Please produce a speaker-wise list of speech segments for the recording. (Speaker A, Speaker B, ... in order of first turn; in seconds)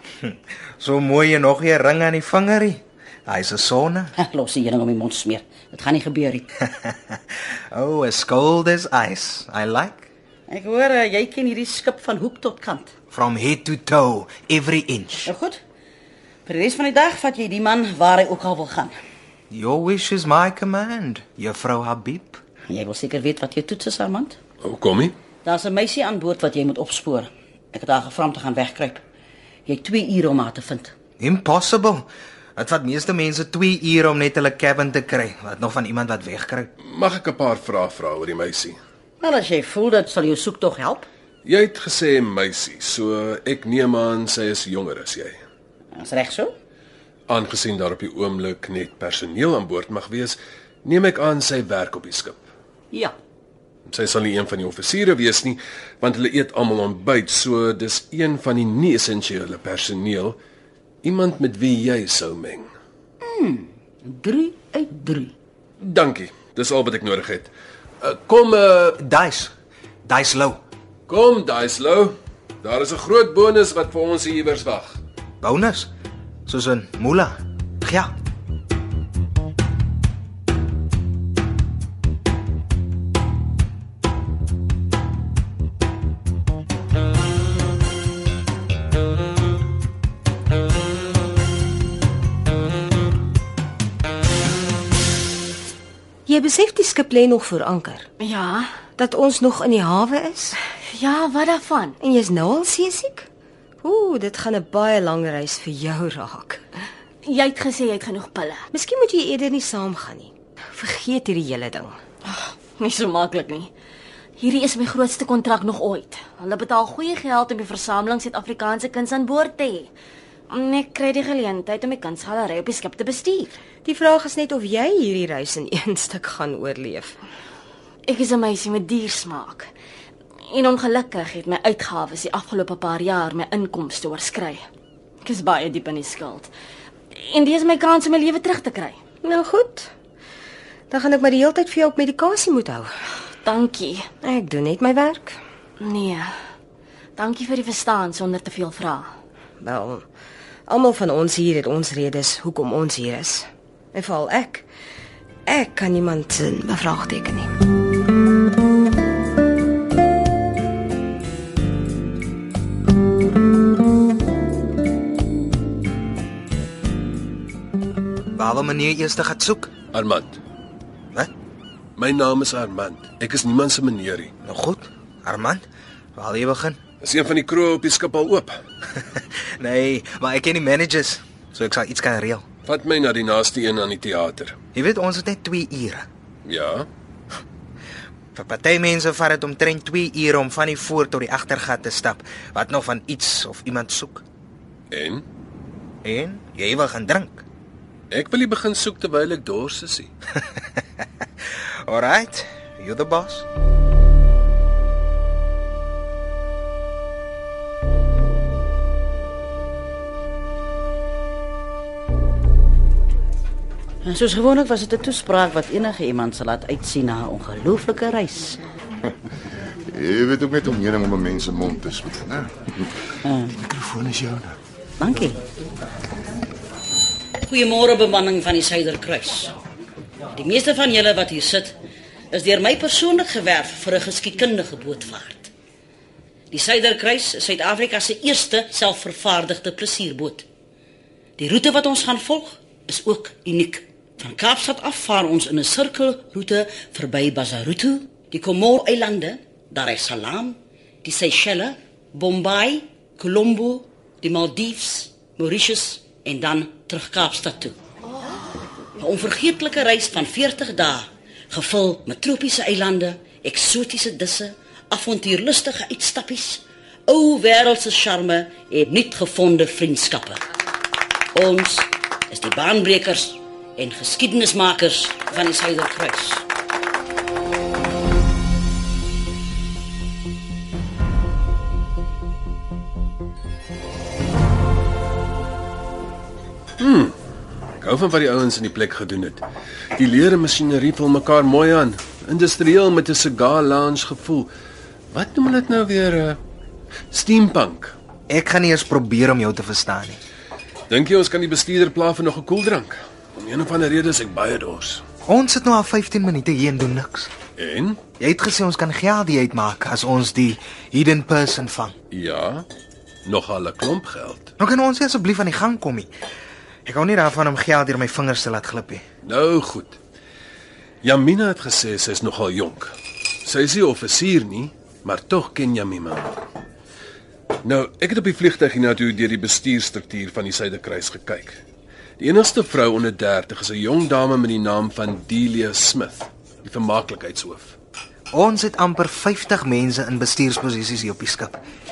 Speaker A: 0.2-4.1, 6.6-7.2, 7.7-10.1, 13.1-15.3, 19.5-22.4, 31.2-32.0, 32.6-36.7, 69.0-69.5, 70.1-70.6, 75.4-75.9, 76.5-78.1, 168.4-169.7, 174.4-175.7, 176.2-176.8, 179.0-182.4, 184.8-186.1, 188.3-194.2, 196.0-197.4, 200.3-201.0, 201.9-203.5, 298.3-300.2, 305.3-307.3, 308.2-312.0, 314.6-316.1, 316.9-319.0, 338.3-341.6
Speaker B: 4.2-6.5, 10.5-12.9, 15.2-15.6, 16.4-18.9, 22.7-24.4, 25.4-29.0, 29.7-30.9, 39.2-41.1, 45.9-46.5, 63.2-65.3, 214.0-218.6, 223.2-223.5, 225.0-225.4, 227.4-229.5, 230.3-231.8, 232.3-235.5, 236.5-240.4, 241.4-257.7, 259.0-270.4, 271.3-276.4
Speaker C: 24.6-25.1, 36.8-38.8, 41.5-45.4, 47.3-52.4, 53.9-60.4, 61.0-62.7, 65.8-67.5, 68.0-69.0, 71.1-75.0, 169.9-170.4, 172.0-174.3, 177.0-178.5, 182.7-184.6, 186.4-186.9, 194.9-195.2, 198.1-200.1, 286.8-287.1, 287.8-289.4, 290.0-294.5, 295.1-296.4, 297.1-297.9, 300.9-305.0, 307.6-308.0, 312.1-312.7, 313.2-314.5, 319.2-320.0, 321.0-322.9, 323.4-326.4, 327.6-331.6, 332.2-337.8
Speaker D: 96.3-98.1, 99.0-100.6, 102.0-103.3, 103.8-106.6, 108.7-112.0, 123.8-127.2, 139.2-139.9, 140.9-142.9, 144.2-145.4, 149.6-150.0, 150.7-154.7, 155.5-157.5
Speaker E: 98.2-98.7, 100.9-102.0, 107.3-108.6, 112.2-113.7, 114.4-119.9, 120.5-123.5, 128.1-129.7, 130.5-134.6, 135.2-136.5, 137.1-139.0, 143.4-144.1, 145.8-146.3, 147.2-149.1
Speaker F: 219.9-222.9, 223.6-224.6